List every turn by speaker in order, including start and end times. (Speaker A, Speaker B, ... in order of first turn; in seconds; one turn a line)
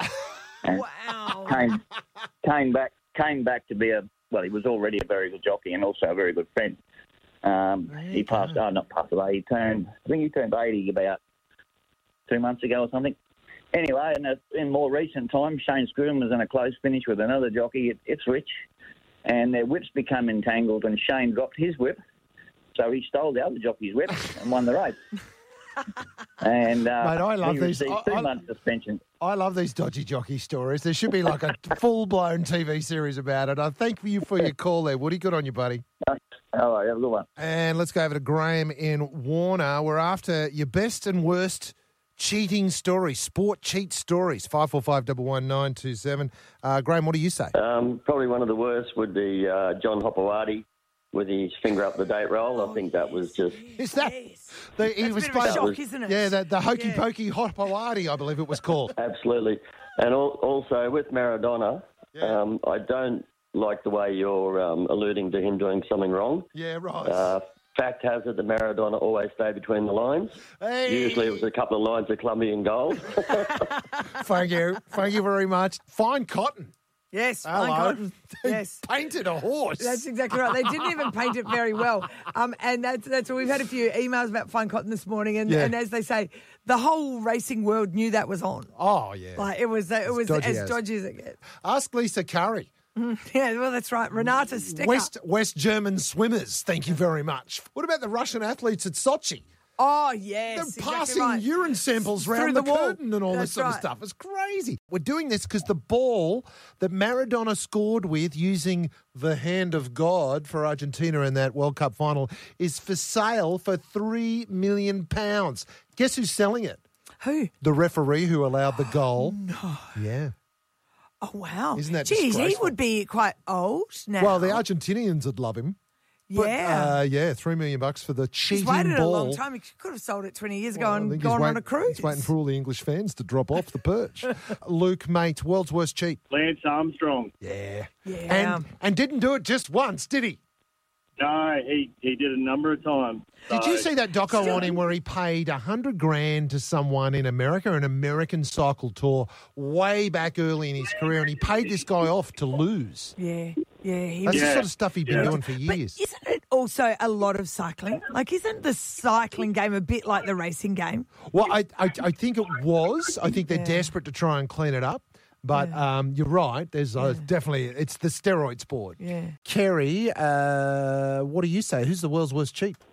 Speaker A: 0.6-1.8
Speaker B: 0.7-1.7
Speaker A: 2.4-6.8
Speaker A: 7.4-11.2
Speaker C: 7.9-8.6
Speaker A: 12.3-13.2
Speaker A: 13.7-18.5
Speaker A: 19.2-22.0
Speaker A: 22.7-25.0
Speaker A: 26.4-29.0
Speaker C: 27.0-28.3
Speaker C: 29.2-35.8
Speaker A: 36.0-37.3
Speaker C: 37.4-47.5
Speaker D: 47.5-53.6
Speaker B: 52.6-57.0
Speaker C: 53.8-58.9
Speaker D: 55.4-55.8
Speaker D: 59.0-66.5
Speaker C: 62.1-62.4
Speaker C: 66.5-67.3
Speaker D: 67.0-73.6
Speaker C: 70.6-71.5
Speaker C: 74.1-76.7
Speaker B: 77.1-78.8
Speaker C: 77.4-80.9
Speaker B: 79.8-88.7
Speaker C: 85.5-85.7
Speaker C: 88.7-89.5
Speaker B: 89.3-91.4
Speaker C: 90.0-90.8
Speaker C: 91.5-92.7
Speaker B: 93.0-95.1
Speaker C: 94.2-99.4
Speaker B: 99.8-103.9
Speaker C: 100.5-116.8
Speaker B: 117.2-117.5
Speaker C: 117.6-119.4
Speaker B: 118.9-120.0
Speaker C: 119.9-120.3
Speaker B: 121.2-124.6
Speaker C: 121.8-122.8
Speaker C: 124.2-125.8
Speaker B: 126.3-127.0
Speaker C: 126.3-129.4
Speaker B: 128.5-132.3
Speaker C: 130.7-136.2
Speaker E: 136.3-137.3
Speaker C: 137.4-140.4
Speaker B: 138.1-138.6
Speaker E: 141.2-143.9
Speaker C: 143.5-153.1
Speaker B: 153.2-154.5
Speaker C: 154.3-156.0
Speaker E: 154.3-155.3
Speaker B: 155.1-161.1
Speaker C: 161.3-172.8
Speaker B: 163.5-163.9
Speaker B: 165.5-165.8
Speaker B: 167.0-167.2
Speaker B: 169.0-169.3